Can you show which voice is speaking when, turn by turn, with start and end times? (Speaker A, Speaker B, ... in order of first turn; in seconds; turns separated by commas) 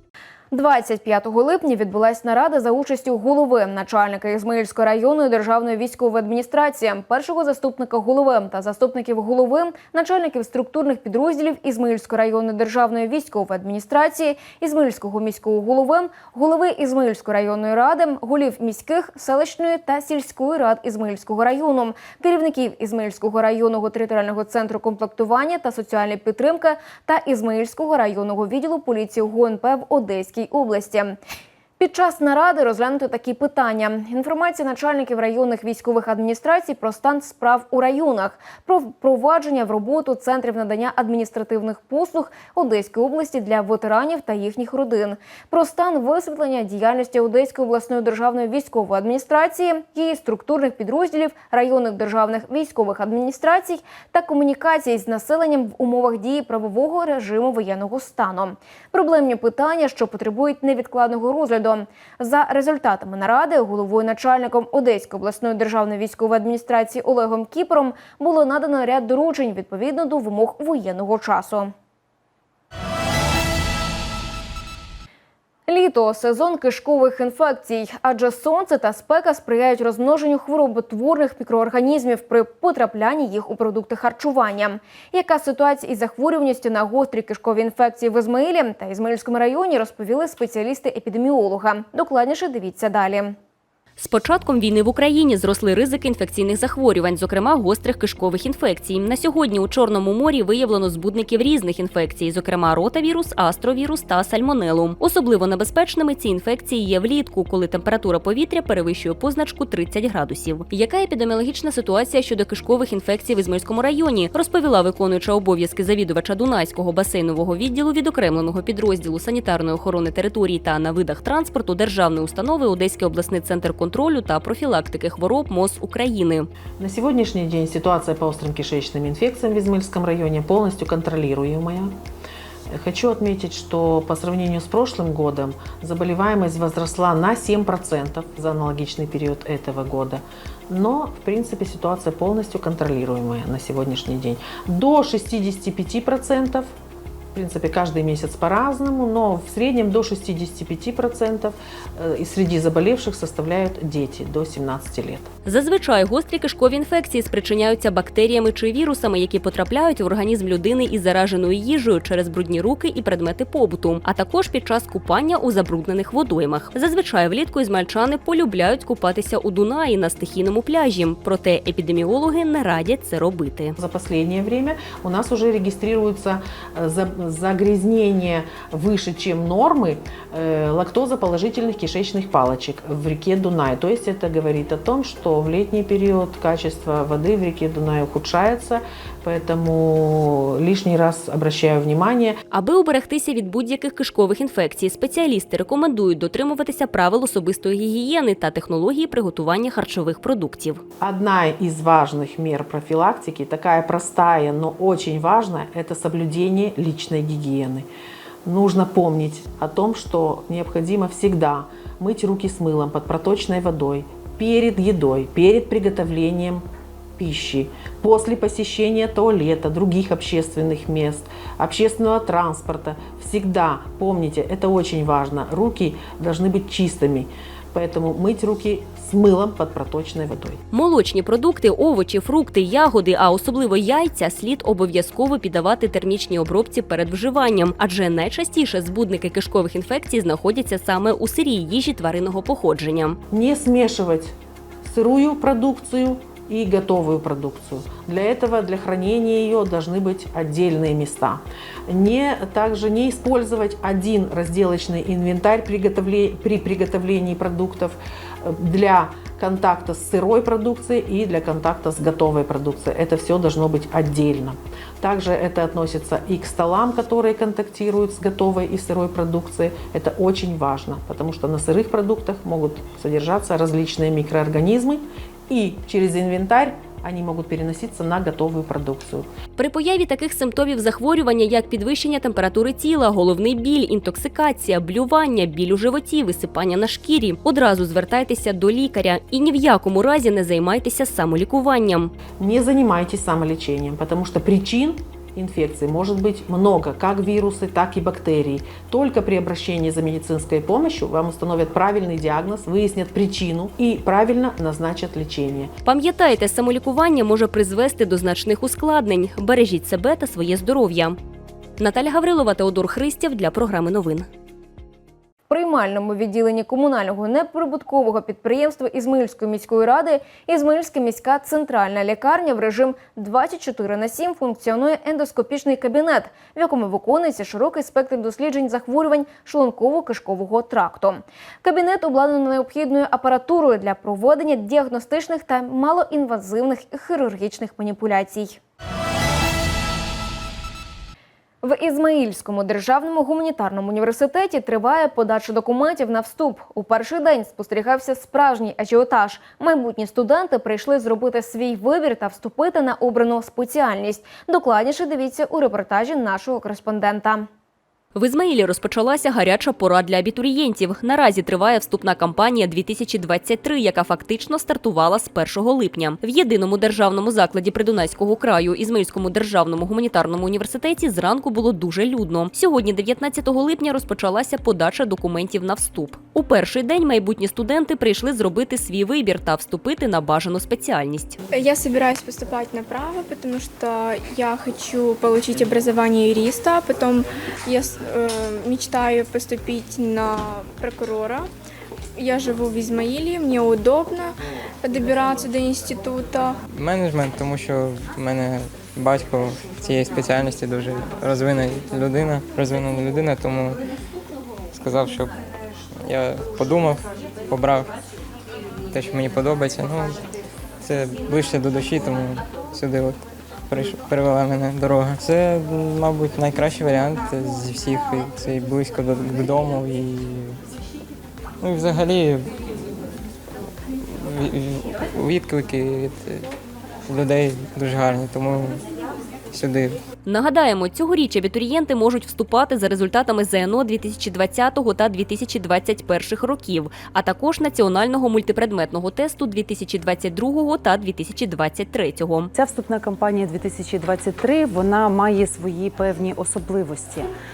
Speaker A: 0.5-31.1, Speaker A: 31.8-71.7, Speaker A: 75.7-93.3, Speaker B: 94.0-126.5, Speaker C: 126.8-131.9, Speaker C: 132.7-146.7, Speaker C: 147.3-155.3, Speaker B: 155.4-173.7, Speaker C: 173.8-192.3, Speaker B: 192.5-200.8, Speaker C: 201.0-207.8, Speaker C: 208.4-216.6, Speaker C: 217.2-230.6, Speaker B: 230.7-243.2, Speaker C: 243.3-244.3, Speaker C: 244.8-279.3, Speaker B: 279.6-292.1, Speaker C: 292.4-305.7, Speaker B: 305.8-311.1, Speaker B: 311.8-314.2, Speaker A: 315.5-338.6, Speaker A: 341.6-357.5, Speaker B: 358.1-381.4, Speaker D: 381.5-391.5, Speaker D: 392.1-396.6, Speaker E: 396.7-403.8, Speaker E: 404.7-405.3, Speaker E: 406.1-407.9, Speaker E: 408.9-410.2, Speaker E: 410.8-420.6, Speaker E: 421.6-422.5, Speaker E: 424.2-426.4, Speaker E: 427.1-428.8, Speaker E: 429.5-430.0, Speaker B: 430.2-442.5, Speaker F: 442.5-447.3